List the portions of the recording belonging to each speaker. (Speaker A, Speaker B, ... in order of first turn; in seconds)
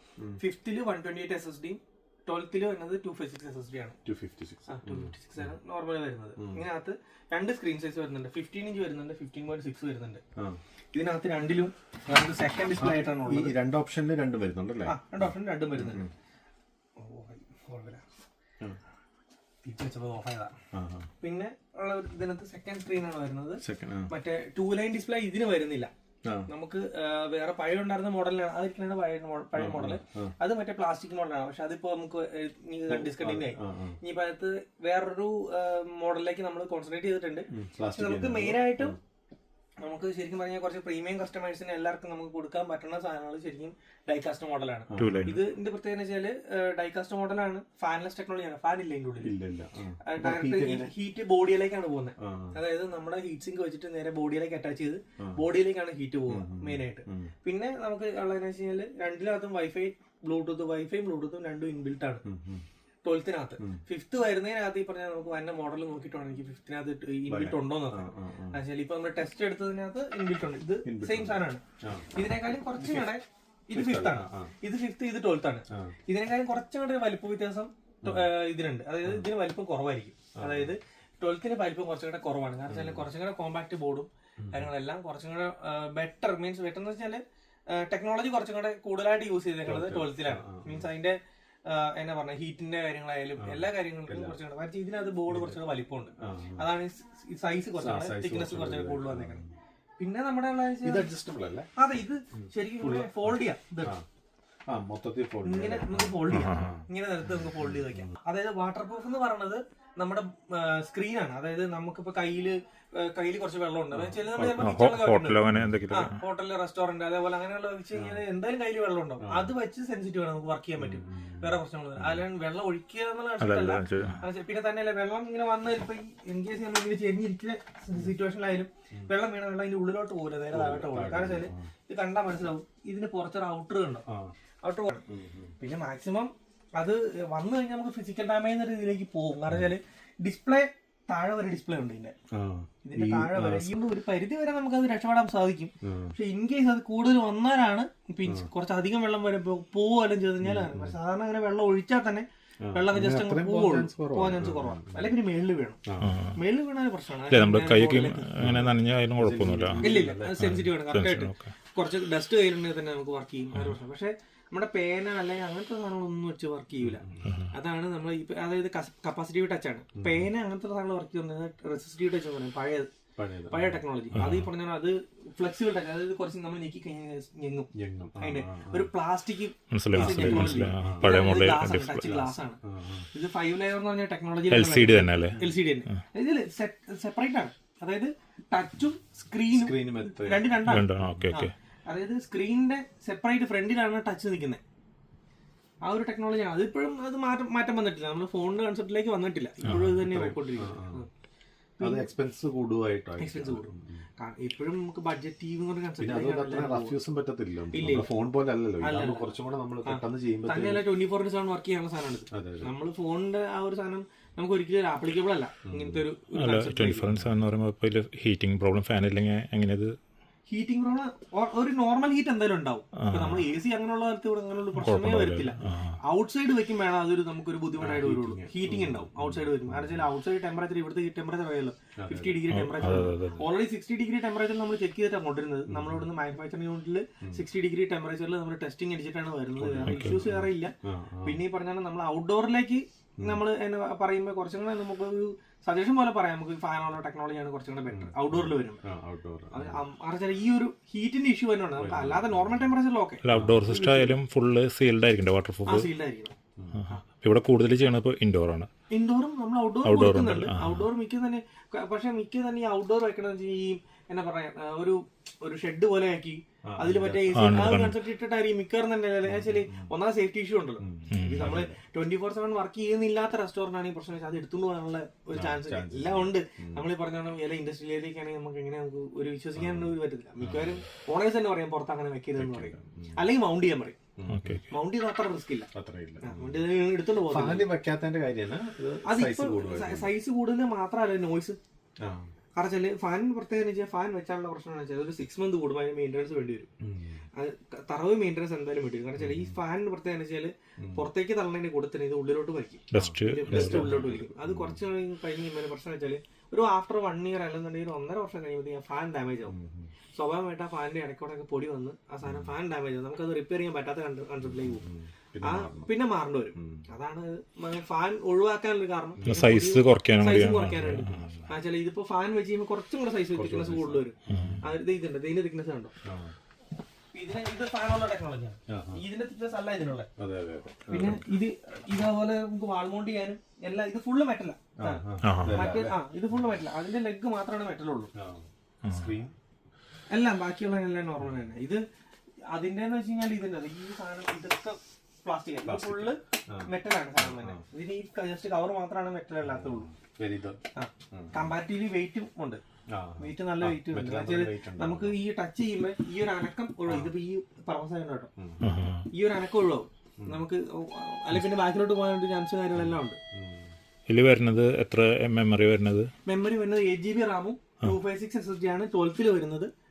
Speaker A: 0.4-4.0, 4.7-10.2, 10.9-13.5, 14.9-16.1, 17.0-18.1, 19.6-20.6, 21.2-25.9, 26.5-39.0, 39.8-49.4, 50.0-62.2, 63.0-99.4, 100.0-101.1, 101.8-103.9, 105.5-134.1, 134.6-135.1, 135.6-142.2, 142.8-155.8, 156.4-158.7, 159.8-172.9, 173.5-182.6, 183.1-194.6, 195.8-201.1, 201.8-202.1, 203.2-207.0, 207.7-208.1, 208.8-209.3, 209.8-217.1, 220.5-248.8, 249.5-254.2, 255.7-256.3, 258.9-284.0, 284.7-285.7, 286.2-287.7, 289.1-291.6, 292.6-296.7, 297.4-309.6, 310.1-314.9, 315.4-325.9, 327.1-330.1, 330.9-338.1, 340.1-341.8, 342.5-349.9, 350.8-352.6, 353.2-358.3, 359.1-363.2, 366.3-369.7
Speaker B: 4.0-5.5, 6.4-6.7, 12.8-15.0, 15.8-16.1, 20.7-21.1, 23.6-24.1, 29.6-30.3, 32.9-34.0, 37.5-39.0, 44.9-45.4, 49.2-51.0, 52.2-52.6, 56.3-57.3, 62.3-62.7, 67.3-68.6, 70.8-72.1, 72.8-73.1, 73.7-74.5, 75.7-76.0, 80.4-80.8, 82.7-83.1, 84.4-84.7, 89.6-90.9, 93.4-94.4, 95.3-95.6, 96.2-96.7, 97.8-99.5, 100.8-101.7, 102.3-104.0, 104.7-108.1, 113.9-114.7, 115.5-115.8, 117.9-118.2, 119.2-119.5, 120.8-122.3, 130.5-131.7, 134.1-134.3, 135.1-135.6, 142.3-143.8, 145.8-146.2, 150.4-151.0, 152.6-155.1, 155.9-156.2, 158.4-160.6, 166.8-167.3, 170.0-170.3, 173.2-174.4, 177.8-178.9, 179.9-181.2, 182.1-183.1, 185.3-185.6, 189.5-191.3, 199.6-201.1, 201.8-204.1, 206.0-210.9, 212.3-212.7, 215.7-216.1, 227.8-230.1, 232.0-233.4, 235.7-236.1, 239.6-241.4, 247.9-249.9, 251.8-252.8, 253.3-253.8, 256.6-256.8, 266.7-267.8, 269.2-269.9, 270.8-271.7, 275.3-276.9, 279.6-280.9, 282.4-283.3, 284.2-284.6, 285.7-286.7, 287.3-290.1, 292.0-292.3, 296.8-297.2, 299.2-299.6, 300.8-301.1, 302.9-304.8, 309.5-309.9, 312.2-312.5, 314.4-316.0, 316.6-316.9, 321.0-321.5, 323.3-324.7, 326.0-326.4, 328.7-329.0, 330.2-331.2, 334.8-336.0, 338.2-339.4, 345.6-347.7, 349.4-350.6, 351.1-351.5, 352.9-355.2, 356.9-357.1, 358.4-358.7, 360.2-360.4, 363.3-363.7
Speaker C: 45.0-45.4, 106.3-106.8, 114.4-116.2, 123.4-124.2, 156.0-156.4, 157.3-161.5, 167.2-167.5, 174.2-174.5, 179.7-182.3, 184.5-185.4, 190.7-191.5, 216.3-219.9, 223.0-223.4, 224.8-226.0, 232.5-233.4, 239.9-240.2, 253.2-255.9, 256.7-258.7, 259.9-260.9, 267.3-268.0, 271.1-271.6, 284.3-284.7, 302.9-304.2, 319.2-321.3, 324.3-324.6, 335.2-335.6, 338.8-339.1, 358.6-359.1, 364.1-366.1